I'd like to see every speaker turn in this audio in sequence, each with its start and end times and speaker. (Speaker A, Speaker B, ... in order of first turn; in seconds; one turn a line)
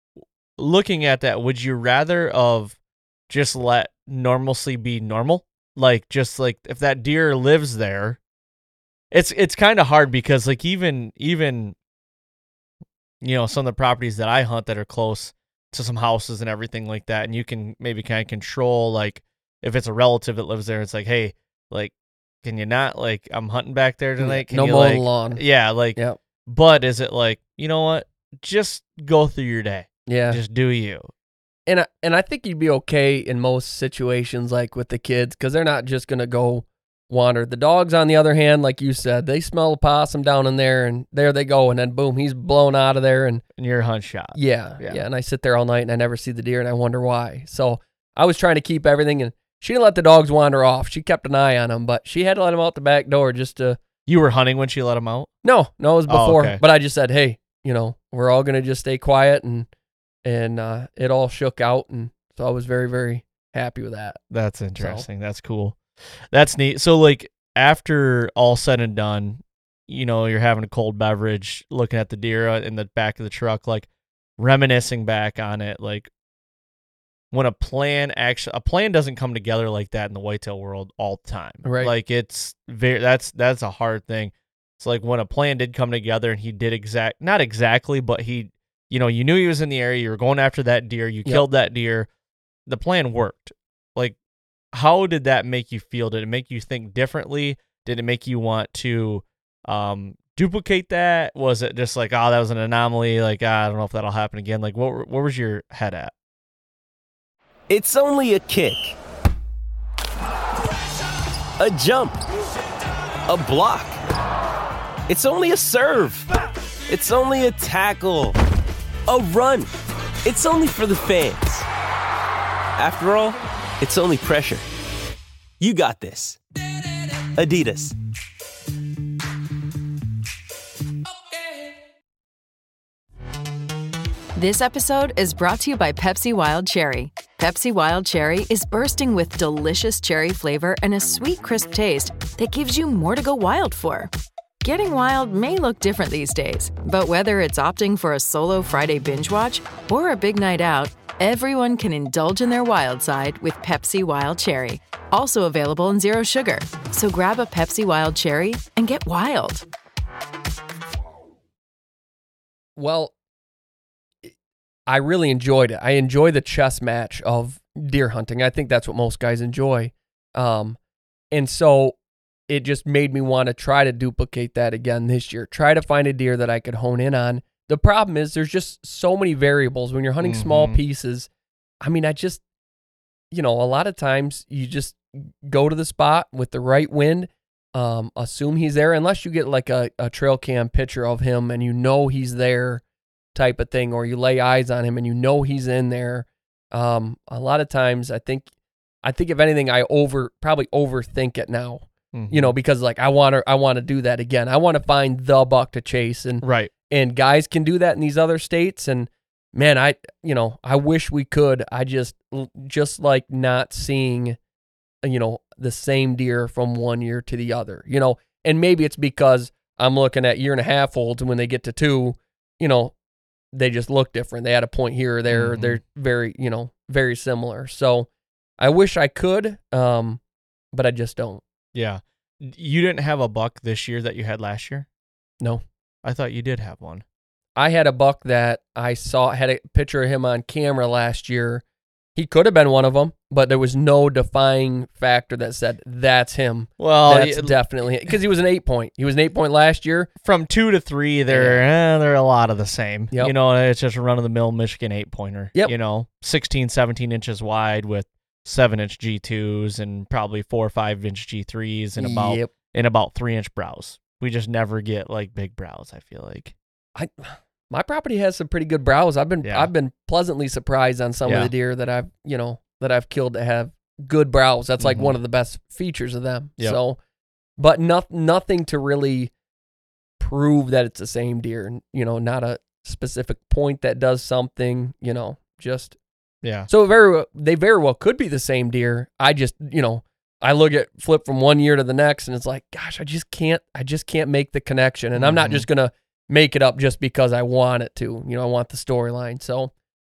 Speaker A: 0.6-2.8
Speaker A: 3.3-8.2
Speaker A: 9.1-11.8
Speaker A: 13.2-31.1
Speaker B: 24.2-25.4
Speaker B: 30.1-30.4
Speaker B: 31.7-43.4
Speaker A: 43.6-45.0
Speaker B: 44.4-53.8
Speaker A: 54.1-55.3
Speaker B: 55.4-59.7
Speaker A: 56.1-56.6
Speaker B: 60.2-64.2
Speaker A: 64.3-65.8
Speaker B: 64.8-65.1
Speaker A: 66.3-76.1
Speaker A: 77.3-92.1
Speaker B: 81.6-81.9
Speaker A: 92.7-94.2
Speaker A: 94.7-106.1
Speaker C: 107.7-109.0
Speaker C: 111.6-112.2
Speaker C: 113.3-114.0
Speaker C: 115.1-116.3
Speaker C: 116.9-118.3
Speaker C: 119.1-119.7
Speaker C: 120.2-121.7
Speaker C: 122.8-124.6
Speaker C: 125.6-126.4
Speaker C: 127.3-127.9
Speaker D: 134.3-159.7
Speaker B: 162.8-163.1
Speaker B: 164.9-170.8
Speaker B: 171.3-171.9
Speaker B: 172.5-181.3
Speaker A: 180.2-180.8
Speaker B: 181.8-182.4
Speaker B: 183.3-192.8
Speaker B: 193.3-198.5
Speaker B: 199.0-214.4
Speaker A: 202.1-202.5
Speaker A: 206.4-206.7
Speaker B: 215.0-222.9
Speaker B: 223.5-228.1
Speaker A: 225.3-225.8
Speaker B: 228.6-230.2
Speaker B: 230.7-231.4
Speaker A: 231.7-234.9
Speaker A: 236.0-237.1
Speaker B: 237.6-241.6
Speaker B: 242.2-250.1
Speaker A: 246.8-248.1
Speaker A: 250.2-266.5
Speaker B: 251.3-251.6
Speaker B: 262.0-262.5
Speaker B: 266.9-277.0
Speaker A: 269.4-269.7
Speaker A: 271.2-271.5
Speaker A: 274.8-275.2
Speaker B: 277.6-279.3
Speaker B: 280.2-285.9
Speaker A: 286.4-286.7
Speaker B: 286.7-299.7
Speaker A: 295.1-295.6